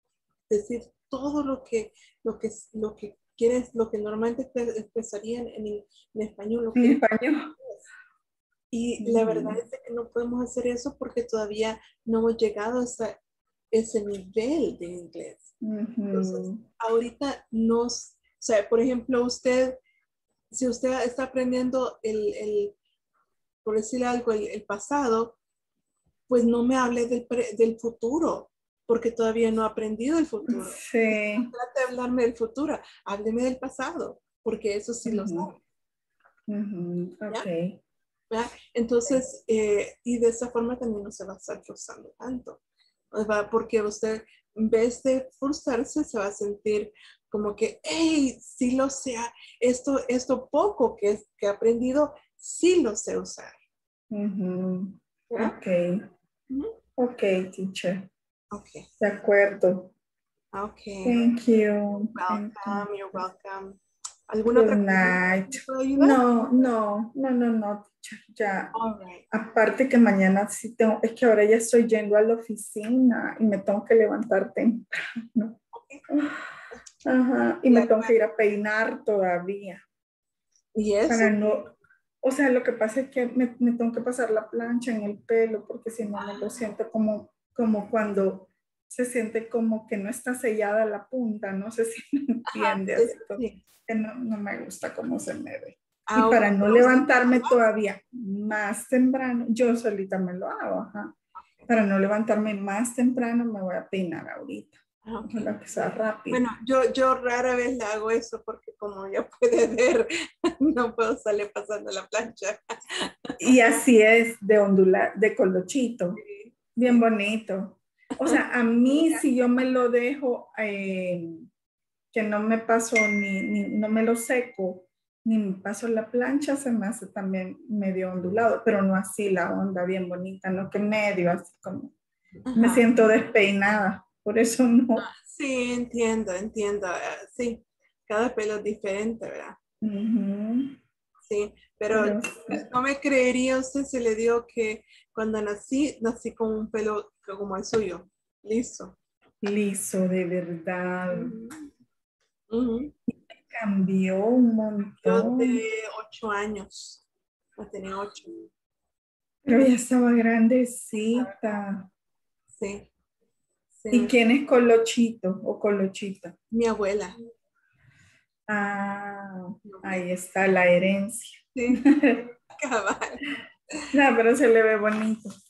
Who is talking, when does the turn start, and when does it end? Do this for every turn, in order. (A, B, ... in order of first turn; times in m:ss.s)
0:00.5-0:07.0 A
0:06.8-0:07.5 B
0:08.7-0:13.2 A
0:09.0-0:09.6 B
0:13.7-0:15.5 A
0:15.6-0:16.6 B
0:16.1-0:19.8 A
0:20.5-0:22.7 A
0:23.6-0:25.4 A
0:26.3-0:30.8 A
0:30.5-0:31.5 B
0:31.4-0:35.6 A
0:35.0-0:35.5 B
0:36.5-0:37.8 B
0:38.3-0:42.6 A
0:43.1-0:53.6 A
0:54.1-0:56.0 B
0:57.0-0:58.1 B
0:58.5-0:58.9 A
0:59.0-0:59.9 B
1:00.5-1:01.2 A
1:01.0-1:03.2 B
1:02.2-1:03.8 A
1:04.3-1:06.2 A
1:04.5-1:08.7 B
1:08.7-1:09.2 A
1:09.3-1:16.4 B
1:15.7-1:16.0 A
1:17.0-1:19.8 B
1:17.7-1:18.2 A
1:20.8-1:21.7 A
1:21.1-1:21.7 B
1:22.2-1:41.1 B
1:26.2-1:26.6 A
1:32.5-1:33.6 A
1:36.1-1:37.6 A
1:41.7-1:46.4 B
1:45.0-1:45.5 A
1:46.3-1:53.5 A
1:53.4-1:56.2 B
1:56.2-1:57.0 A
1:56.8-2:01.5 B
1:58.2-1:59.2 A
2:02.1-2:11.9 B
2:12.5-2:12.8 A
2:12.5-2:15.0 B
2:15.0-2:19.6 A
2:19.8-2:20.8 B
2:21.3-2:28.9 A
2:21.9-2:22.6 B
2:29.4-2:31.4 B
2:31.1-2:31.7 A
2:32.5-2:32.9 A
2:33.5-2:35.6 B
2:35.0-2:37.0 A
2:37.6-2:38.5 A
2:39.4-2:41.9 B
2:41.1-2:41.4 A
2:42.5-2:42.9 A
2:43.8-2:44.1 A
2:43.9-2:46.3 B
2:46.5-2:47.2 A
2:48.5-2:52.3 B
2:49.6-2:50.1 A
2:51.5-2:51.8 A
2:52.5-2:53.2 A
2:53.9-2:55.3 B